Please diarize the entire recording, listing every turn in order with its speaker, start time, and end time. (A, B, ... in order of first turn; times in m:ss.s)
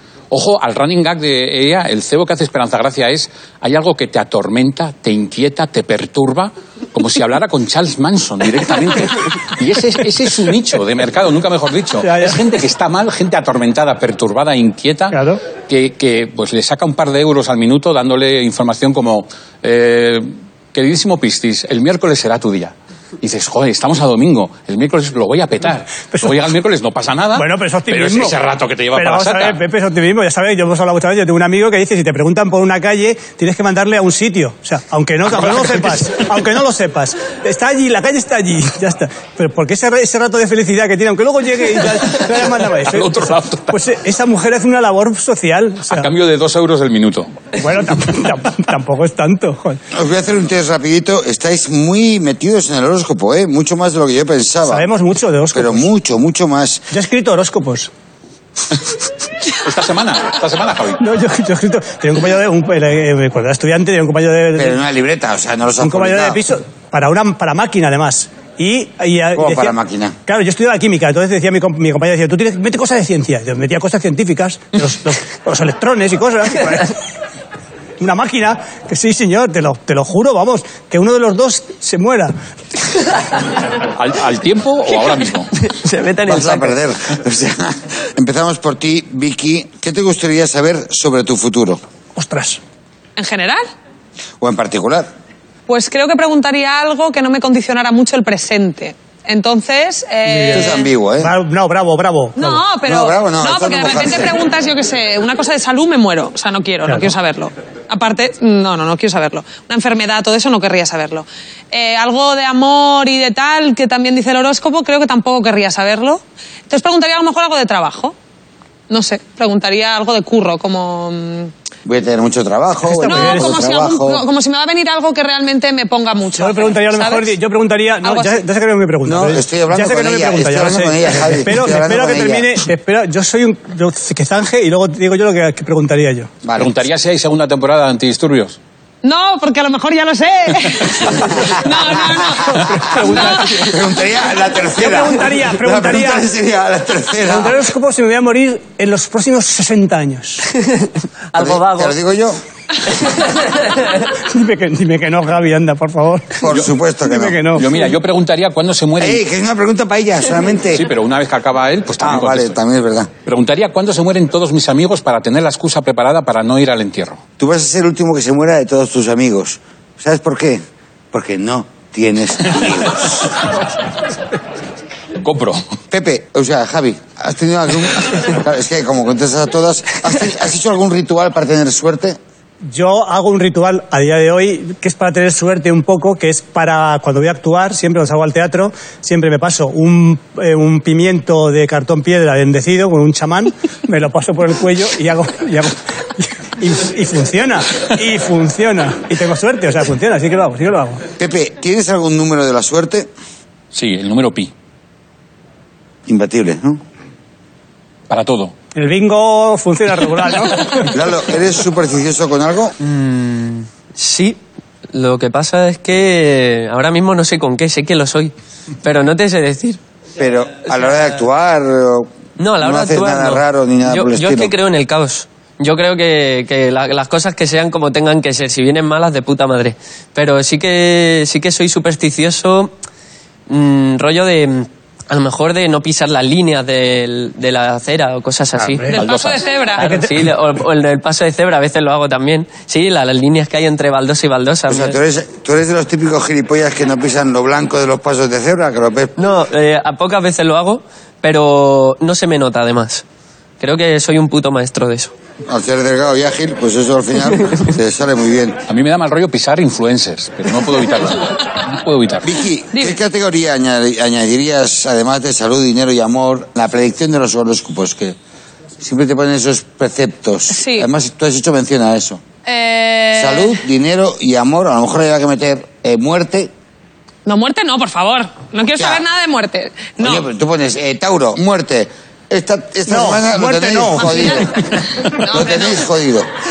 0:00.3-0:15.2 A
0:12.0-0:12.4 B
0:15.1-0:15.4 B
0:15.7-0:29.6 A
0:27.3-0:28.3 B
0:28.9-0:46.1 B
0:35.4-0:36.0 A
0:42.1-0:43.8 A
0:45.9-0:47.3 A
0:47.6-0:49.8 B
0:49.9-0:54.9 C
0:54.6-0:55.9 B
0:55.5-0:56.8 C
0:56.9-0:57.9 B
0:59.5-1:01.0 A
1:01.0-1:04.8 B
1:04.5-1:06.4 C
1:05.8-1:09.7 B
1:09.3-1:10.2 C
1:10.2-1:16.9 B
1:18.0-1:22.3 B
1:23.8-1:25.5 A
1:25.6-1:26.8 D
1:26.2-1:31.8 C
1:32.2-1:32.6 B
1:33.2-1:33.6 E
1:34.4-1:35.1 C
1:35.7-1:40.9 E
1:40.2-1:42.6 B
1:40.5-1:41.3 C
1:42.4-1:58.1 E
1:42.8-1:44.4 C
1:46.8-1:47.1 B
1:58.9-2:01.5 E
2:01.8-2:04.2 C
2:02.9-2:03.6 B
2:03.0-2:07.3 E
2:06.3-2:16.3 B
2:08.0-2:08.4 E
2:09.0-2:12.6 C
2:16.4-2:16.7 C
2:16.6-2:18.6 A
2:19.0-2:23.6 E
2:21.2-2:21.5 C
2:22.4-2:23.8 B
2:23.4-2:27.6 C
2:24.8-2:26.3 B
2:27.2-2:30.4 B
2:30.5-2:32.0 D
2:31.3-2:32.4 C
2:33.1-2:33.8 D
2:34.2-2:36.4 B
2:36.4-2:37.6 C
2:37.0-2:37.7 B
2:37.6-2:39.2 A
2:39.0-2:40.9 C
2:40.7-2:42.6 A
2:42.0-2:43.1 C
2:43.2-2:47.2 A
2:47.4-2:53.4 C
2:55.2-2:55.6 A
2:55.9-3:02.2 C
3:02.6-3:21.0 B
3:21.2-3:23.1 C
3:23.7-3:24.5 A
3:26.0-3:26.8 C
3:28.1-3:28.5 A
3:28.7-3:30.9 B
3:30.9-3:32.8 C
3:32.8-3:34.4 D
3:34.9-3:39.8 D
3:40.2-3:44.5 C
3:42.4-3:52.7 D
3:53.5-3:58.9 D
3:58.6-3:59.0 B
3:58.9-4:00.0 E
3:58.9-3:59.5 A
3:59.8-4:04.9 D
3:59.8-4:00.0 B
4:04.7-4:09.2 C
4:09.2-4:13.0 D
4:13.6-4:15.1 D
4:15.5-4:18.6 C
4:18.7-4:22.3 A
4:22.2-4:28.2 C
4:22.7-4:23.0 E
4:28.8-4:32.2 C
4:30.5-4:30.9 E
4:32.4-4:33.6 E
4:33.1-4:36.5 C
4:37.2-4:40.3 E
4:38.8-4:39.0 C
4:40.0-4:44.7 C
4:42.9-4:44.4 B
4:44.0-4:45.9 E
4:45.2-4:46.3 C